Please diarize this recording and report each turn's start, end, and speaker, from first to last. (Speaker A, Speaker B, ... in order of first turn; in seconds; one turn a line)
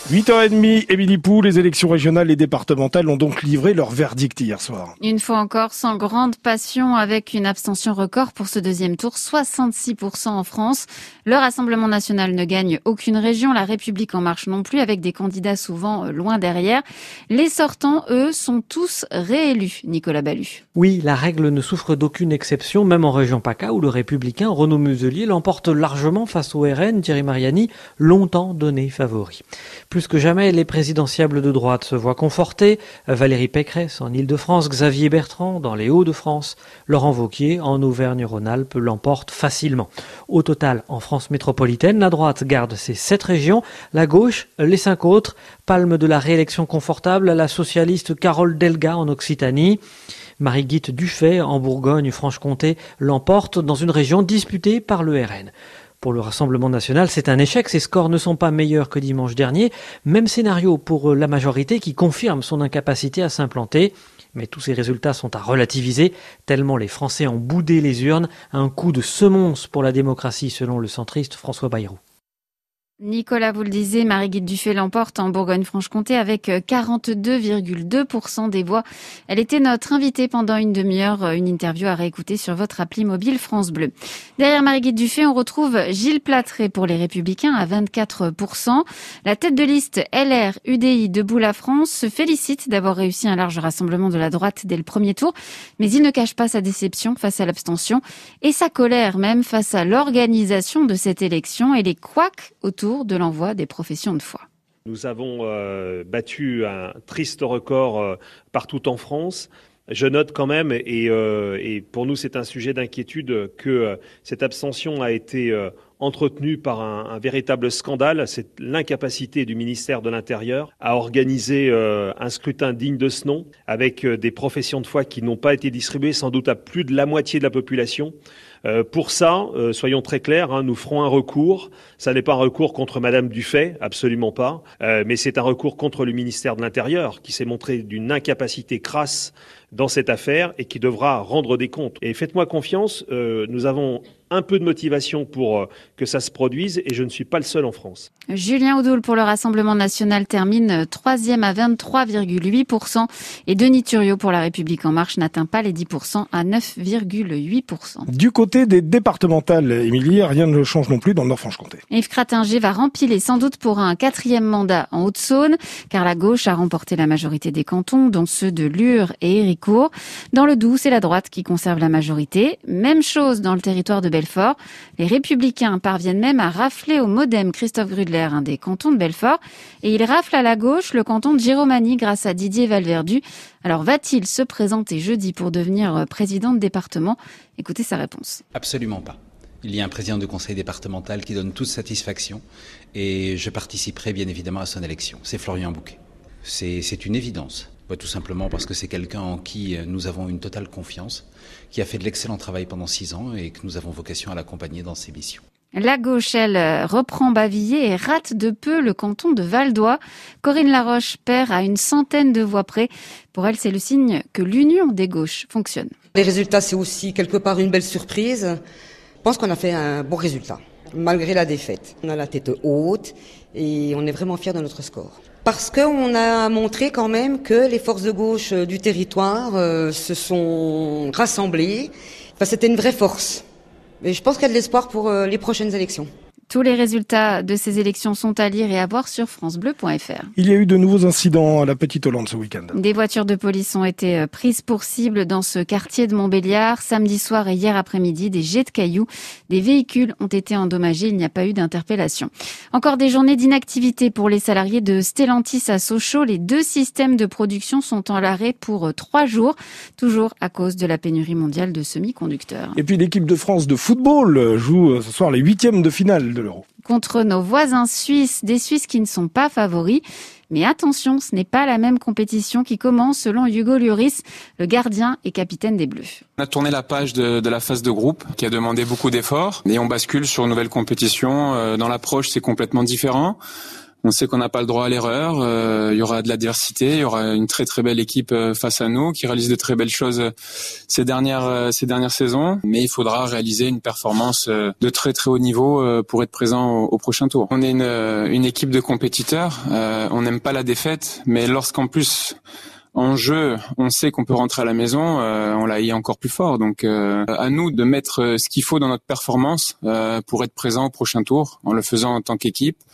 Speaker A: 0.1-5.0
Speaker B: 5.0-20.6
Speaker C: 20.8-49.8
Speaker C: 50.4-72.0
Speaker B: 73.0-104.4
Speaker D: 104.9-148.1
Speaker B: 148.3-158.1
Speaker A: 158.1-161.8
Speaker B: 161.9-188.4
Speaker E: 188.6-192.4
Speaker E: 192.9-205.4
Speaker B: 205.7-215.9
Speaker F: 216.2-218.6
Speaker F: 219.2-233.5
Speaker F: 234.0-236.1
Speaker B: 236.5-240.3
Speaker A: 240.4-242.8
Speaker B: 242.7-262.8
Speaker A: 262.8-266.6
Speaker B: 266.9-276.2
Speaker G: 276.4-283.4
Speaker G: 284.0-290.3
Speaker G: 290.9-302.4
Speaker G: 302.9-312.8